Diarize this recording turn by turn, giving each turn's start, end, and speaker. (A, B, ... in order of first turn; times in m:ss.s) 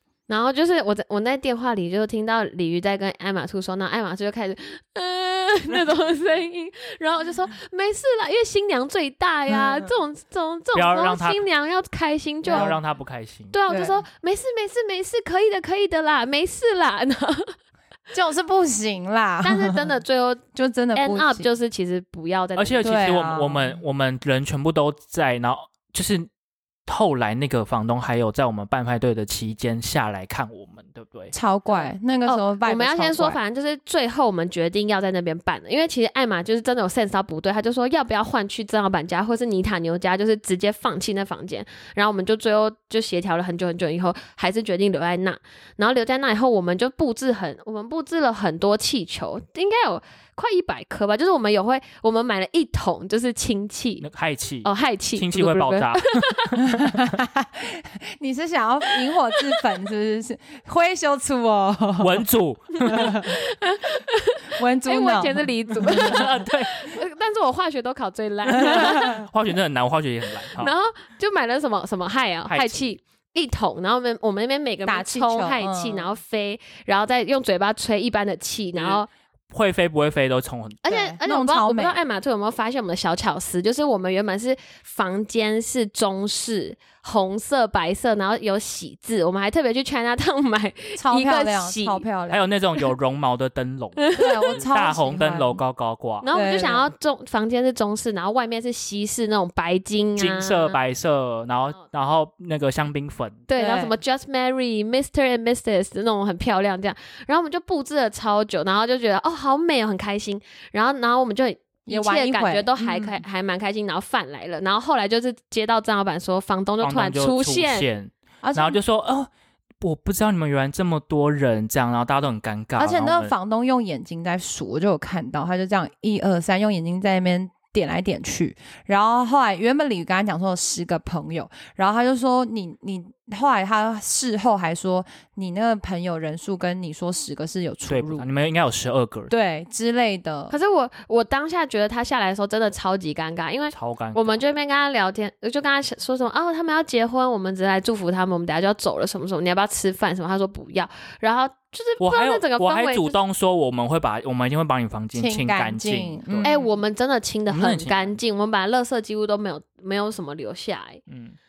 0:00.3-0:12.8 A
0:09.5-0:09.8 B
0:10.7-0:11.4 C
0:12.5-0:12.8 B
0:12.5-0:13.6 C
0:13.5-0:17.5 A
0:13.7-0:14.0 B
0:18.1-0:19.8 B
0:19.4-0:20.4 A
0:20.6-0:21.5 B
0:21.0-0:23.0 A
0:22.6-0:26.3 C
0:22.8-0:23.8 B
0:26.9-0:31.3 C
0:31.3-0:33.4 B
0:31.7-0:54.1 A
0:54.0-0:57.2 C
0:54.6-0:56.4 A
0:56.6-1:02.2 B
1:02.0-1:03.3 C
1:02.9-1:09.3 A
1:02.9-1:03.3 B
1:04.6-1:06.3 B
1:05.9-1:06.9 C
1:08.5-1:10.7 C
1:10.5-1:19.1 A
1:12.5-1:12.9 C
1:14.8-1:16.1 B
1:18.8-1:20.8 C
1:20.8-1:32.0 A
1:20.9-1:22.0 B
1:31.0-1:32.5 B
1:32.3-1:36.3 C
1:34.0-1:34.6 A
1:34.2-1:35.6 B
1:36.2-1:40.8 A
1:36.3-1:36.9 B
1:40.2-1:43.5 C
1:43.5-1:57.9 A
1:43.6-1:44.0 B
1:51.9-1:53.2 B
1:56.8-1:59.3 C
1:58.4-1:58.8 B
1:59.8-2:03.3 C
2:02.8-2:18.3 B
2:17.9-2:19.3 C
2:19.3-2:20.6 B
2:20.5-2:33.2 A
2:23.7-2:24.4 C
2:32.0-2:36.5 C
2:35.1-2:36.7 B
2:36.4-2:41.0 A
2:37.5-2:38.2 C
2:41.1-2:41.4 C